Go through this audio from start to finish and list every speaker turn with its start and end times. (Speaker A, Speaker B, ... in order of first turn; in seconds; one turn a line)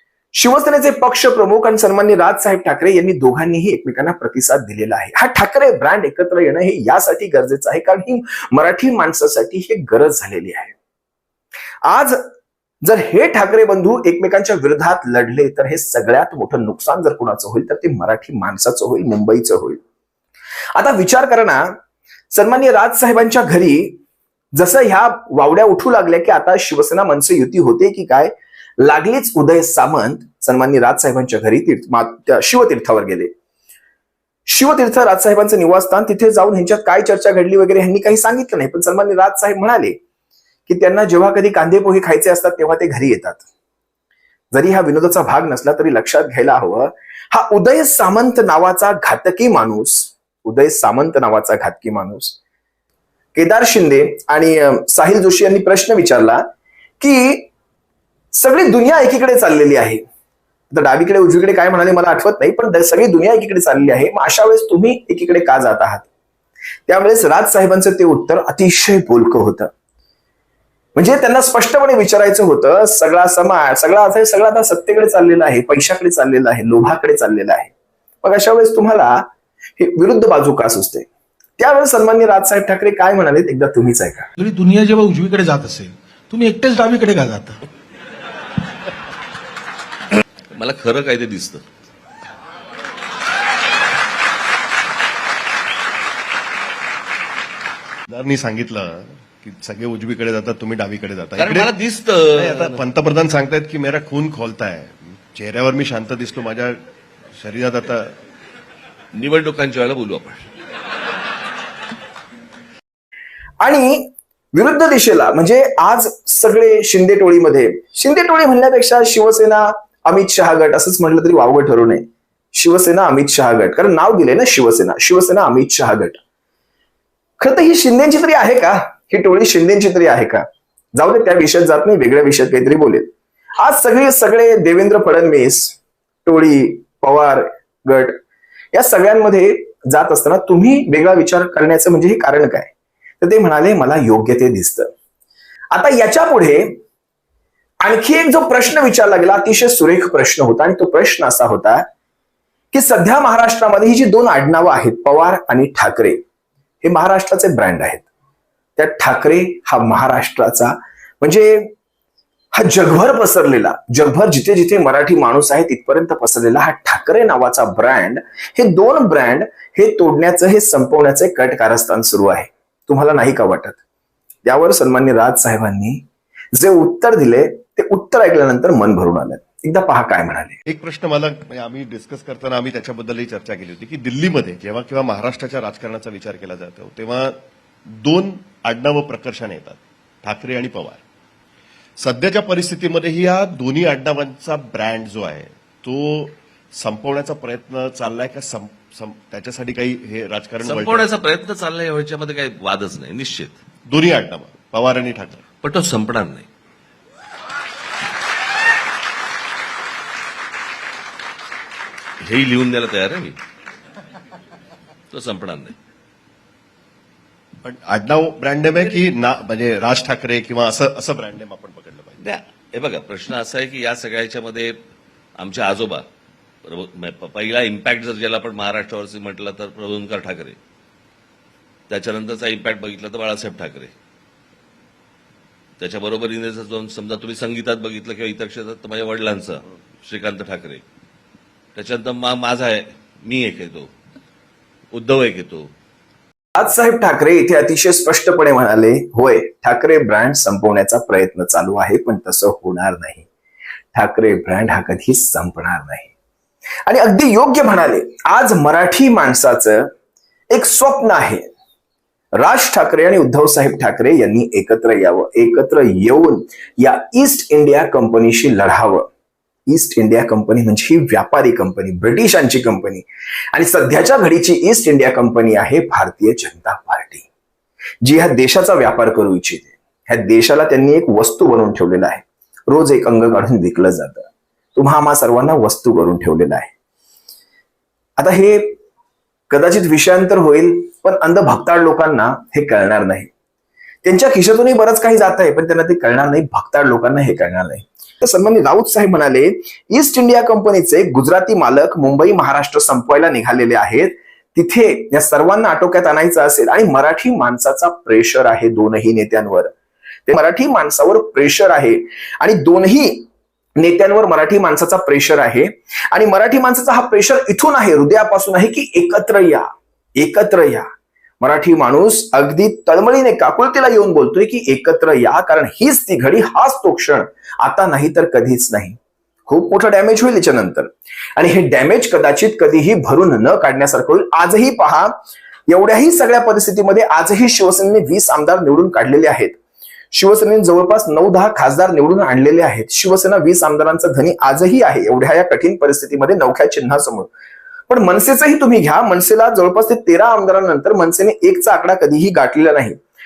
Speaker A: 0.4-10.8
Speaker A: 11.9-12.2
Speaker A: 12.8-19.8
Speaker A: 20.8-21.8
Speaker A: 22.3-24.0
Speaker A: 24.5-33.3
Speaker A: 34.5-40.0
Speaker A: 40.7-43.4
Speaker A: 44.5-52.4
Speaker A: 53.3-56.4
Speaker A: 57.0-57.5
Speaker A: 58.3-60.0
Speaker A: 60.7-66.1
Speaker A: 66.9-69.7
Speaker A: 71.0-77.7
Speaker A: 78.2-79.3
Speaker A: 79.8-81.1
Speaker A: 81.6-84.3
Speaker B: 84.4-87.6
Speaker C: 90.5-91.6
Speaker D: 98.1-101.7
Speaker C: 101.4-102.8
Speaker D: 102.3-106.8
Speaker D: 107.4-108.1
Speaker C: 109.1-110.4
Speaker A: 113.6-122.0
Speaker A: 122.5-126.2
Speaker A: 127.4-138.2
Speaker A: 138.7-144.9
Speaker A: 145.7-146.8
Speaker A: 147.8-151.8
Speaker A: 152.7-156.2
Speaker A: 156.8-158.1
Speaker A: 158.8-161.7
Speaker A: 162.5-173.8
Speaker A: 174.4-176.0
Speaker A: 176.5-180.6
Speaker D: 180.7-187.3
Speaker D: 187.9-191.0
Speaker D: 192.0-201.1
Speaker C: 200.6-203.6
Speaker D: 203.9-205.4
Speaker C: 205.6-206.5
Speaker C: 212.2-213.4
Speaker C: 215.1-215.8
Speaker D: 217.6-222.2
Speaker C: 222.2-224.7
Speaker C: 225.4-226.0
Speaker C: 226.6-230.6
Speaker C: 231.9-233.9
Speaker C: 235.8-240.8
Speaker C: 241.8-243.9
Speaker C: 244.9-245.7
Speaker A: 246.6-253.2
Speaker A: 253.9-256.1
Speaker A: 256.9-259.9
Speaker A: 260.5-261.5
Speaker A: 262.4-269.1
Speaker A: 269.7-277.2
Speaker A: 278.0-286.7
Speaker A: 288.2-288.8
Speaker A: 289.5-293.3
Speaker A: 294.0-309.7
Speaker A: 310.3-320.9
Speaker A: 321.4-335.1
Speaker A: 335.7-339.6
Speaker A: 340.1-347.3
Speaker A: 347.9-353.0